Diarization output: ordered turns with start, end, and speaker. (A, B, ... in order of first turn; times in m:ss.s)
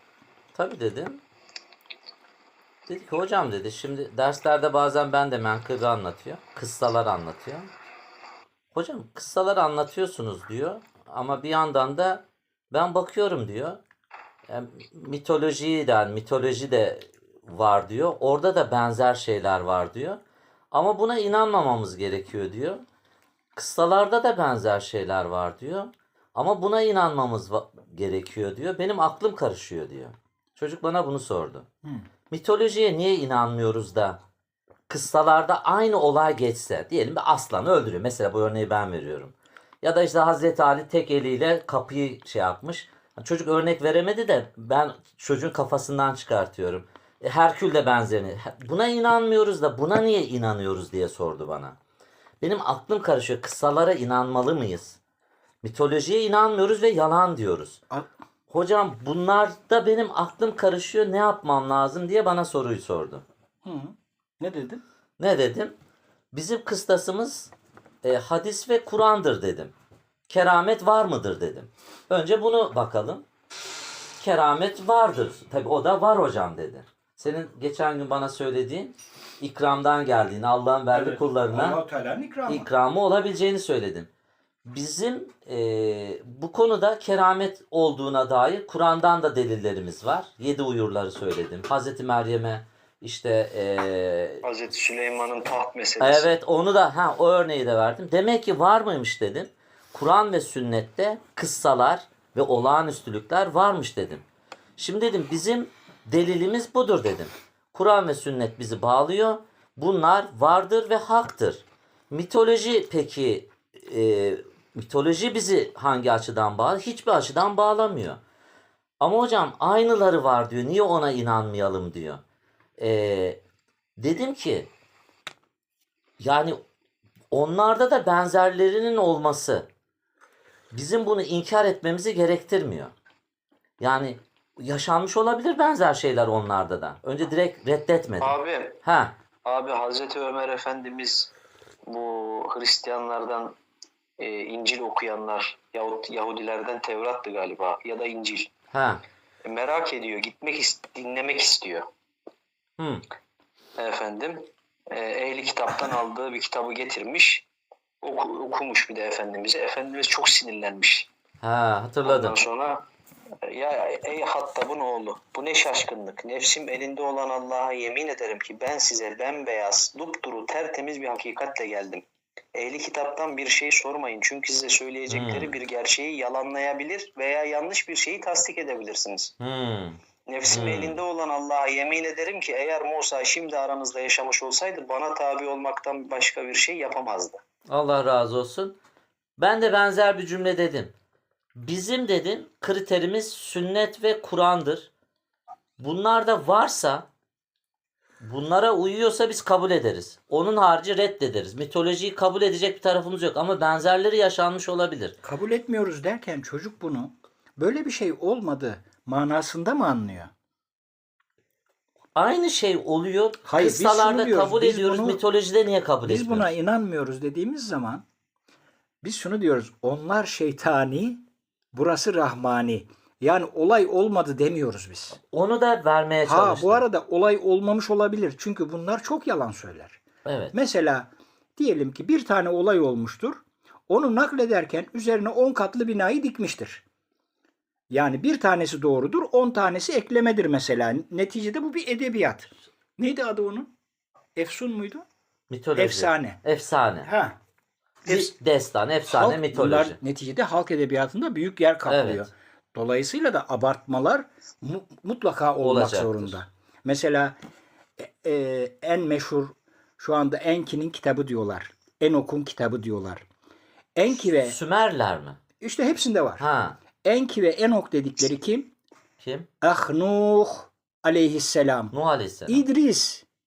0:00.5-0:01.2 A
0:02.9-0:07.7 A
0:08.7-0:13.8 A
0:14.5-0:20.2 A
0:20.7-0:22.8 A
0:23.6-0:31.7 A
0:32.3-0:34.2 A
0:34.9-0:51.8 A
0:52.4-0:55.0 A
0:55.6-0:57.8 A
0:58.5-1:03.2 A
1:03.6-1:04.8 B
1:05.2-1:05.7 A
1:06.3-1:07.5 A
1:08.0-1:09.7 A
1:10.3-1:13.2 A
1:14.2-1:21.8 A
1:20.9-1:22.7 B
1:22.5-1:24.1 A
1:24.6-1:34.4 A
1:34.4-1:36.3 C
1:36.0-1:44.2 A
1:44.8-1:58.2 A
1:59.0-2:02.2 A
2:02.8-2:03.4 A
2:04.0-2:04.7 A
2:06.2-2:06.6 A
2:07.3-2:09.7 A
2:10.7-2:12.9 A
2:13.8-2:19.2 A
2:18.2-2:18.8 C
2:19.4-2:21.3 C
2:21.8-2:23.6 C
2:24.2-2:28.5 C
2:28.7-2:29.0 A
2:29.4-2:31.9 C
2:32.8-2:33.0 A
2:33.8-2:37.5 C
2:38.0-2:41.1 C
2:41.4-2:42.4 A
2:42.0-2:42.8 C
2:43.4-2:52.0 C
2:52.5-2:59.3 C
2:55.1-2:55.5 A
2:59.4-3:01.0 A
3:00.3-3:07.4 C
3:07.7-3:08.8 A
3:09.4-3:10.9 A
3:11.6-3:14.9 A
3:15.8-3:17.1 A
3:18.2-3:25.2 A
3:25.2-3:30.3 B
3:32.1-3:36.5 A
3:33.4-3:35.2 B
3:36.0-3:38.0 B
3:39.0-3:41.2 B
3:41.7-3:45.2 B
3:45.3-3:46.8 A
3:46.2-3:50.0 B
3:50.2-3:50.6 A
3:50.5-3:56.8 B
3:57.9-4:03.7 B
4:04.4-4:05.0 B
4:05.5-4:07.1 A
4:05.8-4:06.4 B
4:07.0-4:07.4 B
4:08.0-4:08.3 B
4:08.0-4:10.0 A
4:09.1-4:17.3 B
4:11.8-4:12.3 A
4:15.6-4:16.4 A
4:18.0-4:23.2 B
4:23.9-4:24.6 B
4:24.4-4:25.4 A
4:25.6-4:26.4 B
4:26.4-4:26.8 A
4:27.0-4:28.7 B
4:29.2-4:29.5 A
4:29.6-4:31.9 B
4:31.9-4:32.6 A
4:32.5-4:33.2 B